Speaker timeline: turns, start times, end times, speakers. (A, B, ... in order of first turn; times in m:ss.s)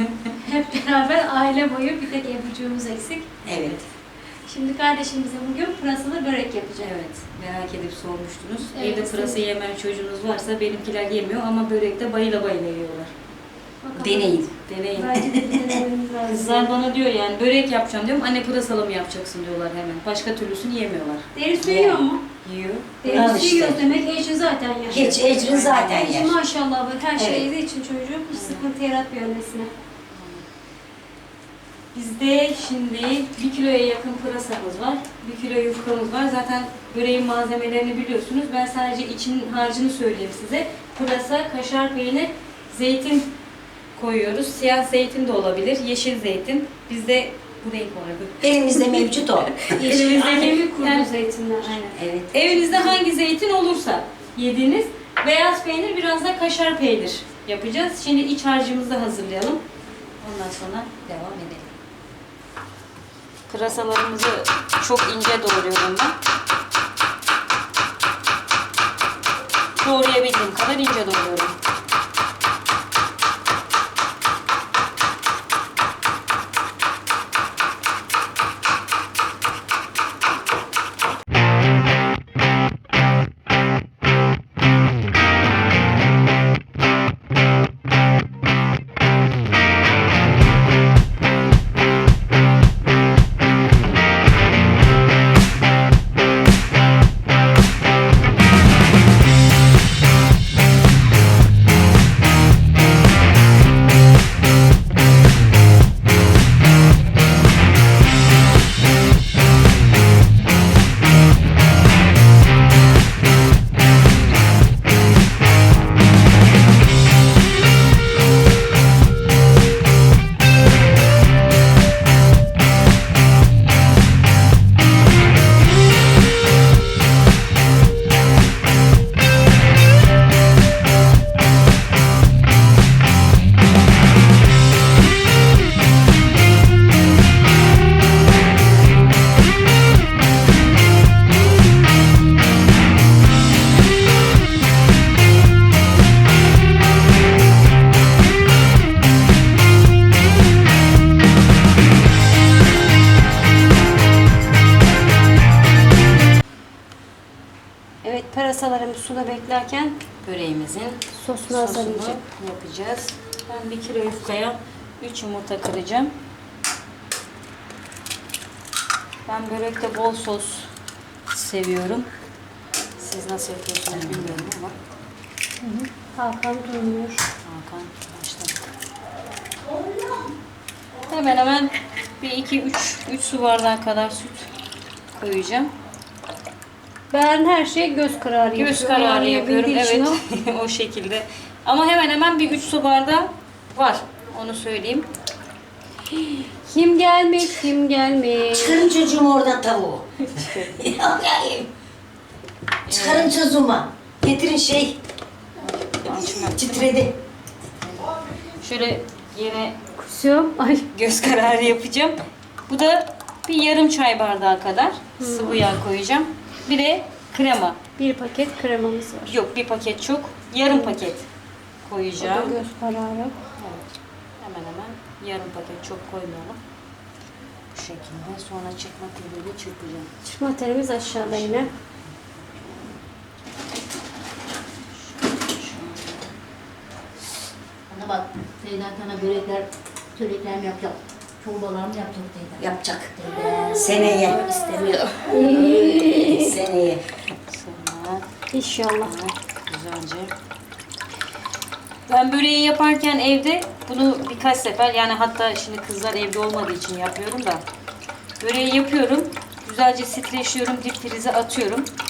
0:00.4-0:03.4 A
0:03.4-0:03.8 B
0:03.4-0:03.8 C
0:04.4-0:06.9 A
0:06.8-0:13.1 C
0:08.8-0:09.4 A
0:13.8-0:16.7 A
0:14.0-0:15.2 C
0:15.2-0:15.8 B
0:16.3-0:21.9 C
0:21.4-0:22.2 A
0:21.6-0:22.0 B
0:22.4-0:23.4 C
0:23.0-0:25.1 A
0:23.1-0:23.9 B
0:24.9-0:26.4 B
0:24.9-0:26.1 C
0:25.9-0:29.7 A
0:28.3-0:28.6 C
0:30.1-0:30.4 C
0:31.9-0:43.3 C
0:44.0-0:59.6 C
0:48.4-0:50.3 B
0:49.7-0:51.8 A
0:51.9-0:52.4 B
0:52.5-0:53.0 A
1:00.2-1:01.8 C
1:03.5-1:06.2 C
1:09.8-1:11.6 C
2:38.0-2:40.0 A
2:40.2-2:46.1 C
2:41.1-2:42.2 A
2:49.3-2:50.7 C
2:51.3-2:52.1 C
2:53.0-2:54.8 C
2:53.9-2:54.5 B
2:55.6-2:57.3 A
2:57.4-2:58.6 C
3:01.1-3:04.5 C
3:05.2-3:05.7 C
3:07.1-3:10.2 A
3:08.6-3:15.1 C
3:16.6-3:18.8 A
3:18.5-3:21.7 B
3:20.4-3:20.8 C
3:22.9-3:23.3 C
3:22.9-3:25.0 B
3:25.6-3:27.0 C
3:26.1-3:27.2 B
3:28.6-3:29.8 C
3:30.0-3:30.9 A
3:30.9-3:37.8 C
3:35.2-3:35.6 A
3:38.0-3:39.4 A
3:39.3-3:41.3 C
3:41.8-3:42.6 C
3:42.2-3:43.4 A
3:43.6-3:43.8 C
3:44.4-3:46.6 C
3:47.7-3:50.1 C
3:50.3-3:51.7 A
3:51.2-3:51.7 C
3:55.0-3:55.8 C
3:57.9-4:05.4 D
4:03.8-4:04.5 B
4:05.3-4:06.6 A
4:05.4-4:07.0 B
4:07.5-4:08.2 C
4:08.5-4:09.2 A
4:09.0-4:10.3 C
4:12.1-4:17.6 C
4:18.4-4:21.9 C